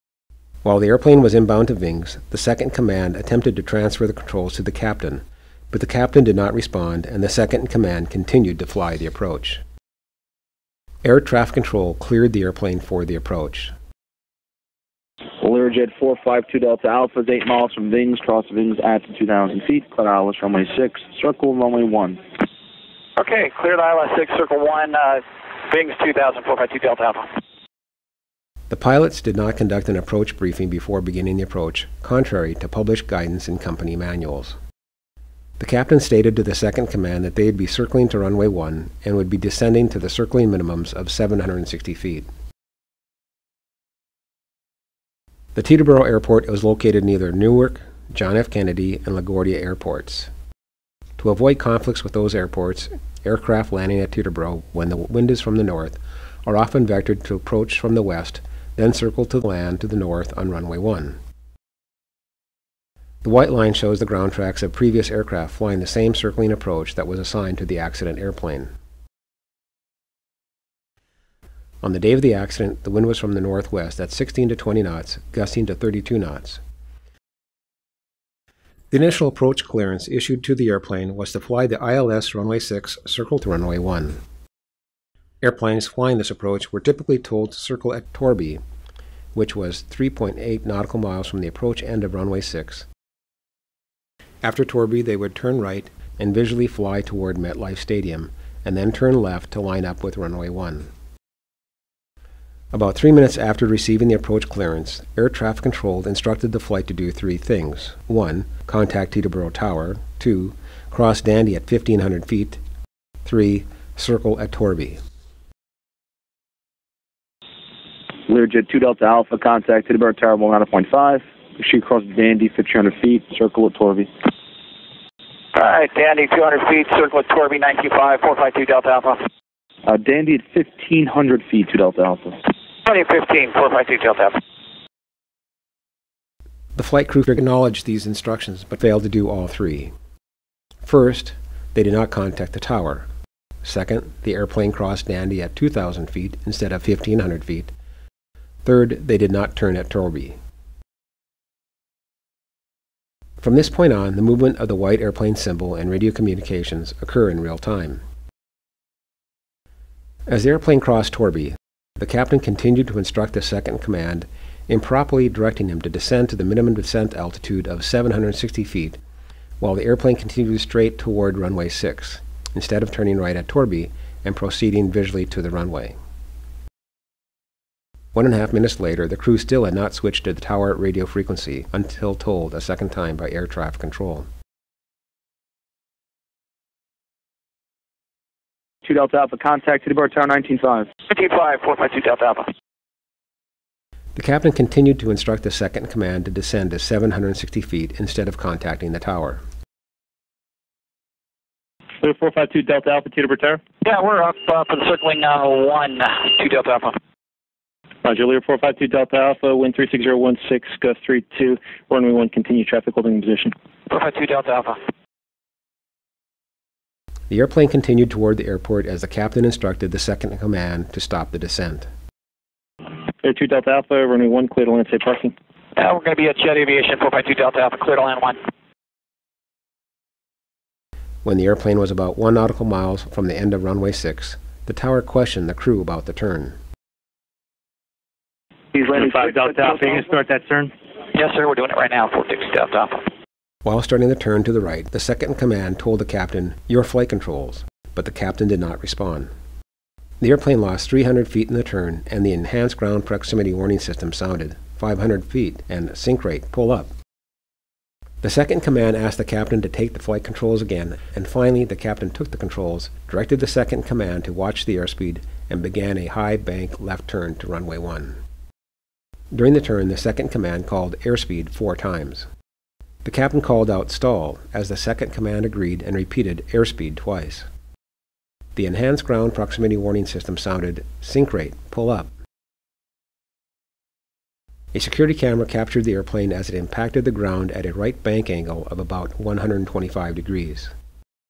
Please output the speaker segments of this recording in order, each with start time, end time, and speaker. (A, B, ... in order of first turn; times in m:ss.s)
0:00.6-0:09.6 A
0:11.0-0:13.7 A
0:15.4-0:22.2 B
0:23.2-0:27.3 C
0:28.7-0:34.6 A
0:35.6-0:42.3 A
0:45.6-0:50.3 A
0:51.2-1:01.2 A
1:03.2-1:08.7 A
1:11.8-1:16.6 A
1:18.9-1:24.2 A
1:25.4-1:28.6 A
1:29.4-1:32.9 A
1:34.4-1:40.9 A
1:42.7-1:52.6 A
1:53.2-1:55.0 A
1:58.3-2:04.1 B
2:05.6-2:09.2 C
2:09.9-2:12.3 B
2:12.8-2:14.4 C
2:16.8-2:19.9 A
2:20.8-2:23.1 A
2:23.6-2:27.7 A
2:28.6-2:30.4 A
2:33.4-2:38.0 A
2:40.3-2:49.0 A
2:49.6-2:56.0 A
2:58.2-3:04.3 A
3:08.8-3:10.9 B
3:11.1-3:12.5 C
3:14.2-3:19.4 A
3:22.0-3:23.6 D
3:23.8-3:27.0 C
3:28.1-3:33.5 D
3:33.9-3:34.8 C
3:37.3-3:41.9 A
3:43.2-3:45.3 D
3:45.8-3:48.4 C
3:51.2-3:56.6 A
3:58.9-4:00.7 D
3:59.2-3:59.7 B
4:01.1-4:03.0 C
4:03.6-4:09.3 A
4:10.2-4:16.9 A
4:18.2-4:28.2 A
4:29.3-4:32.3 A
4:33.0-4:37.5 A
4:38.6-4:42.1 A
4:44.7-4:50.7 A